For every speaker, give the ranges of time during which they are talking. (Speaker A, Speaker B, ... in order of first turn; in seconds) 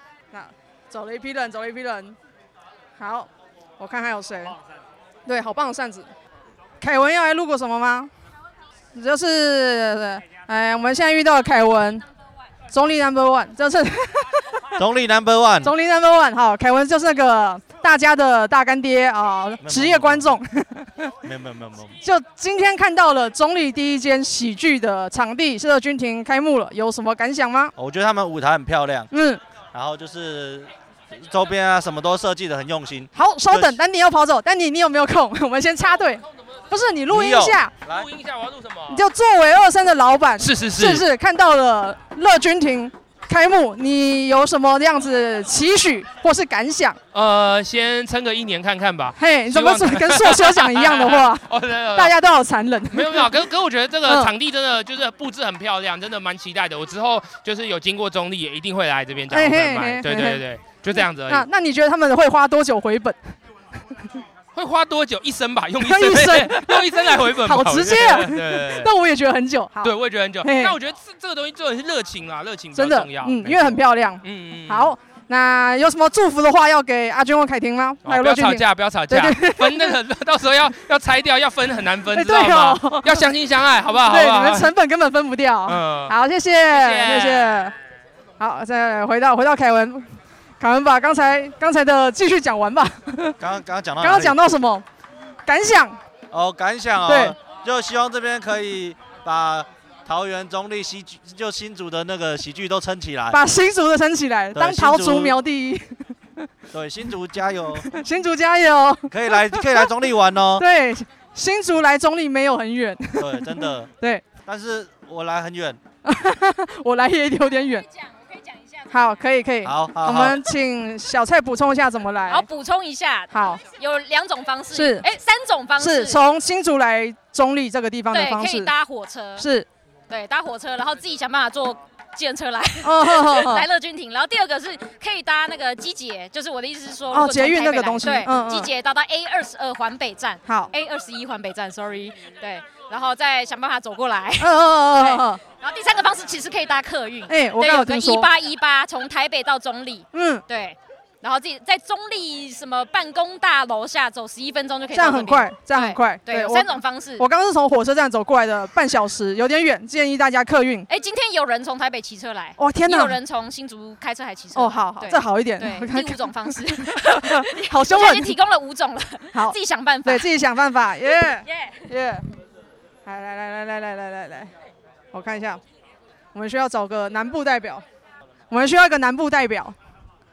Speaker A: 0.3-2.1, 3.0-4.5, 5.2-6.1, 6.8-8.1, 8.9-12.0, 12.7-14.3, 15.6-21.1, 22.0-27.7, 29.1-29.4, 33.1-37.7, 38.9-47.0, 49.2-53.3, 54.0-54.3, 59.3-60.4, 61.3-63.2, 65.8-70.8, 72.7-80.0, 82.1-83.3, 84.0-87.7, 88.4-93.3, 94.0-94.8, 95.5-96.0, 97.0-97.3, 103.3-105.9, 107.8-109.9, 110.5-114.2, 116.0-117.9, 118.9-122.5, 123.3-123.6, 124.7-125.1, 125.8-128.7, 129.4-129.7, 132.8-133.7, 137.1-138.7, 140.4-140.7, 144.4-145.4, 147.3-148.3, 150.1-150.4, 154.9-160.9, 162.6-163.2, 164.5-168.3, 169.3-172.2, 173.1-174.5, 175.1-175.6, 176.3-177.8, 178.5-179.8
Speaker B: 14.8-15.7, 19.6-20.2, 21.2-21.9, 27.8-29.1, 29.7-30.7, 31.2-33.7, 37.1-38.1, 93.4-94.4, 96.3-103.3, 104.5-105.3, 106.7-107.9, 109.1-110.6, 113.2-113.9, 114.5-115.8, 119.7-120.3
Speaker C: 37.9-39.0, 40.4-41.0, 47.1-52.1, 52.9-61.5, 64.5-68.9, 69.8-74.9, 78.0-84.7, 85.7-86.1, 86.7-87.6
Speaker D: 122.3-126.2, 128.1-129.4, 130.1-157.2, 160.9-170.3, 171.5-171.8